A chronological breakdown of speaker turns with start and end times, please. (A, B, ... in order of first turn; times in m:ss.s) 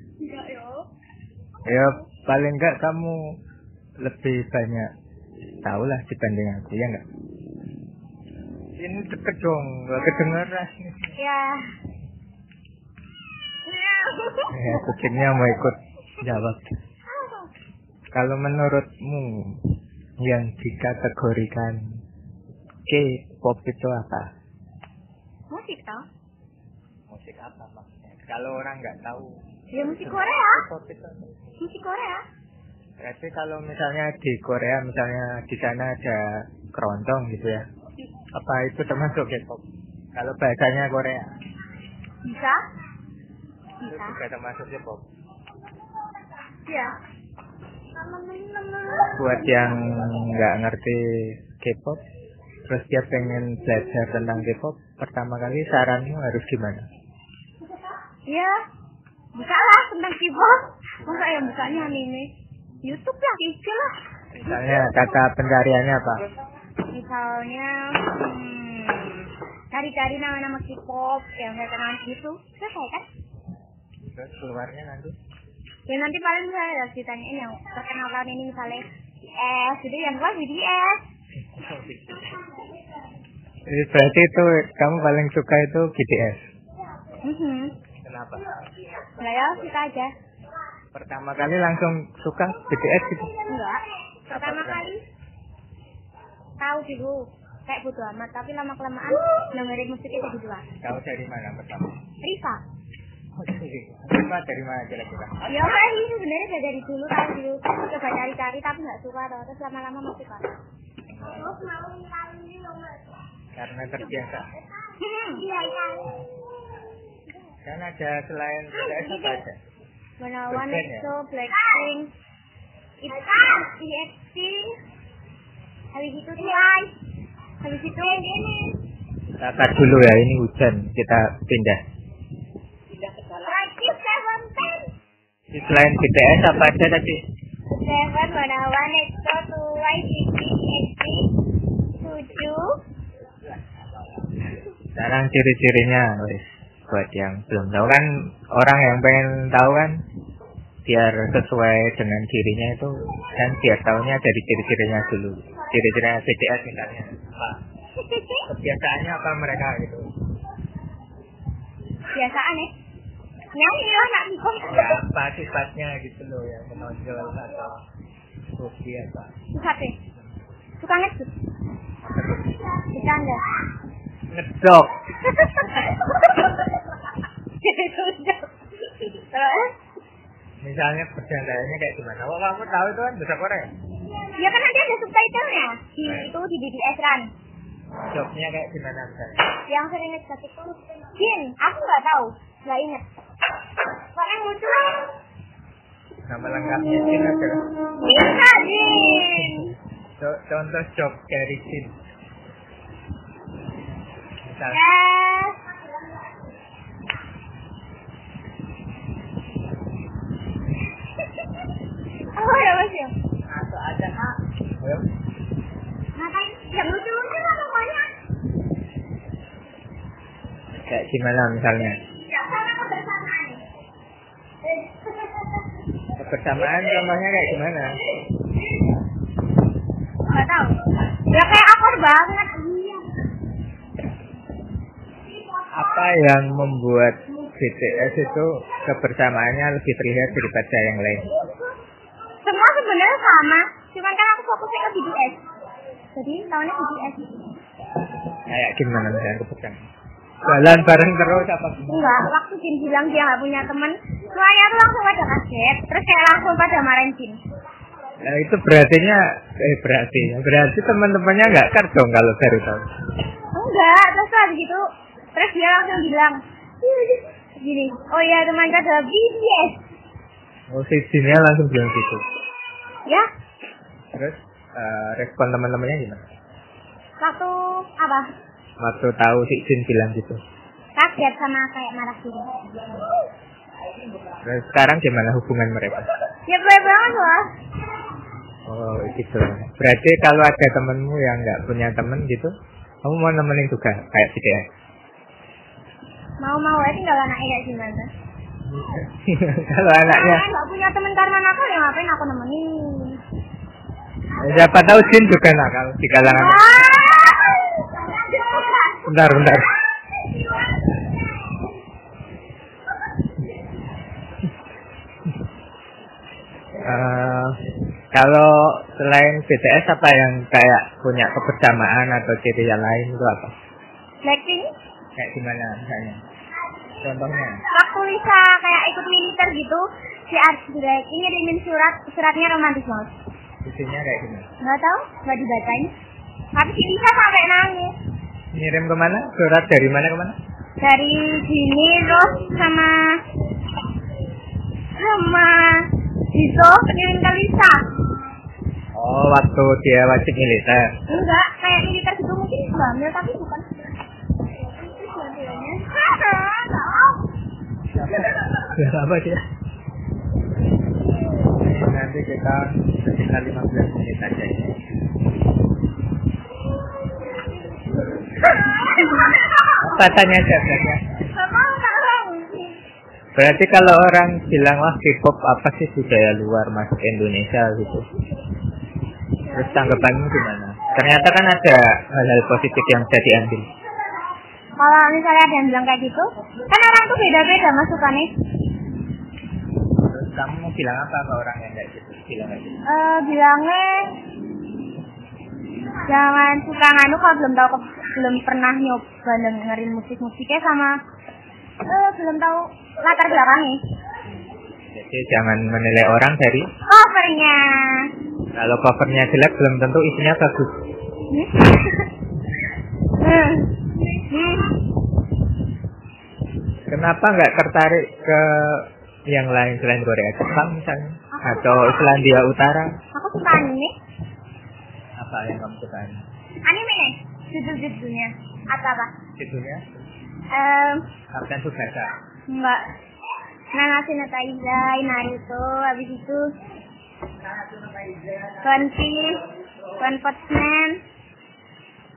0:00.2-0:00.8 A
0:01.7-0:03.4 B
0:04.0-0:04.9 B
0:05.6-0:07.0 B
0:08.8-0:11.1 B
0:11.2-0:11.7 A
0:13.7-0:14.6 A
0:14.5-0:16.6 B
0:17.2-0:17.4 A
0:18.1-0:22.0 B
0:22.9-0:24.3 B
0:25.5-0:26.0 A
0:27.1-0:31.3 B
0:29.7-0:30.6 A
0:31.6-0:32.2 A
0:33.0-0:37.7 B
0:38.3-0:39.6 B
0:40.2-0:41.3 B
0:42.2-0:42.6 A
0:43.8-0:44.2 A
0:43.8-0:45.0 B
0:46.7-0:47.0 A
0:48.1-0:49.1 A
0:49.1-0:52.0 B
0:52.7-0:56.8 B
0:58.3-0:58.6 A
0:59.4-1:02.3 A
1:02.8-1:03.9 A
1:04.4-1:06.3 B
1:06.9-1:13.1 A
1:14.1-1:15.2 B
1:15.9-1:18.8 A
1:19.4-1:21.0 A
1:21.5-1:22.4 B
1:23.7-1:26.4 B
1:27.2-1:27.7 A
1:28.0-1:28.5 B
1:29.2-1:30.1 A
1:30.9-1:33.3 B
1:33.5-1:35.0 A
1:34.3-1:34.9 B
1:36.6-1:40.7 A
1:40.8-1:42.0 B
1:42.2-1:42.6 A
1:43.4-1:45.4 B
1:45.4-1:50.5 A
1:51.1-1:51.7 B
1:51.6-1:52.9 A
1:53.6-1:54.5 B
1:55.0-1:56.4 A
1:57.6-1:59.6 B
1:58.8-1:59.4 A
2:00.2-2:02.1 A
2:00.5-2:01.1 B
2:03.0-2:04.8 A
2:05.9-2:06.9 A
2:07.6-2:08.8 A
2:09.4-2:11.8 B
2:13.3-2:14.9 A
2:15.5-2:17.2 B
2:17.7-2:22.7 A
2:25.0-2:30.0 B
2:30.8-2:37.6 B
2:38.0-2:38.4 A
2:38.5-2:40.1 B
2:42.1-2:42.7 A
2:43.5-2:45.0 A
2:44.7-2:47.8 B
2:48.6-2:49.3 B
2:49.5-2:50.0 A
2:50.8-2:51.3 A
2:52.0-2:52.6 B
2:52.8-2:53.4 A
2:54.3-2:54.9 B
2:57.6-2:59.7 A
3:00.6-3:03.7 B
3:04.3-3:07.3 A
3:06.0-3:06.3 B
3:08.1-3:09.5 B
3:09.7-3:13.0 A
3:14.2-3:15.1 A
3:16.3-3:17.8 B
3:18.0-3:19.7 A
3:20.2-3:21.9 B
3:24.4-3:24.8 B
3:24.7-3:25.6 A
3:32.3-3:33.2 A
3:33.5-3:35.1 B
3:36.2-3:38.1 A
3:40.8-3:42.0 B
3:42.3-3:43.6 A
3:46.2-3:48.0 B
3:50.3-3:53.1 A
3:55.8-4:01.3 B
4:02.4-4:05.4 A
4:06.2-4:07.5 A
4:08.5-4:09.8 B
4:10.4-4:12.2 B
4:10.5-4:10.9 A
4:11.9-4:17.4 A
4:18.2-4:22.8 B
4:23.5-4:29.8 A
4:30.7-4:32.2 B
4:34.1-4:36.3 B
4:37.2-4:38.3 A
4:38.8-4:40.4 B
4:41.0-4:42.6 A
4:44.4-4:46.1 B
4:46.5-4:47.5 A
4:48.7-4:52.5 B
4:53.0-4:54.7 B
4:56.4-4:58.1 A
4:58.6-5:00.5 B
5:00.0-5:03.2 A
5:04.4-5:06.8 B
5:06.2-5:09.0 A
5:09.0-5:09.7 B
5:16.8-5:17.6 B
5:18.1-5:23.5 B
5:24.2-5:24.7 A
5:25.2-5:26.2 B
5:27.0-5:27.6 B
5:27.7-5:33.1 A
5:33.6-5:34.5 B
5:34.6-5:35.9 A
5:36.5-5:38.0 A
5:38.5-5:40.4 B
5:40.8-5:43.2 A
5:45.0-5:47.9 A
5:48.9-5:50.9 B
5:51.1-5:53.7 A
5:54.6-5:57.2 A
5:57.9-5:59.4 B
6:01.5-6:04.8 B
6:08.4-6:10.2 A
6:09.8-6:11.0 B
6:11.3-6:12.7 A
6:13.4-6:18.1 B
6:19.5-6:20.1 A
6:19.5-6:23.7 B
6:24.8-6:28.3 A
6:30.0-6:32.8 B
6:32.8-6:34.1 A
6:36.1-6:41.0 A
6:41.8-6:43.8 A
6:44.9-6:46.7 B
6:46.9-6:48.1 A
6:48.6-6:50.8 B
6:51.3-6:52.1 A
6:53.1-6:54.8 A
6:56.9-7:02.9 B
7:01.3-7:02.2 A
7:03.1-7:03.9 A
7:05.2-7:06.2 B
7:06.6-7:09.1 A
7:09.4-7:10.0 B
7:10.5-7:11.1 A
7:11.3-7:12.1 B
7:12.5-7:12.9 A
7:13.7-7:16.4 A
7:18.6-7:19.4 A
7:20.0-7:21.0 A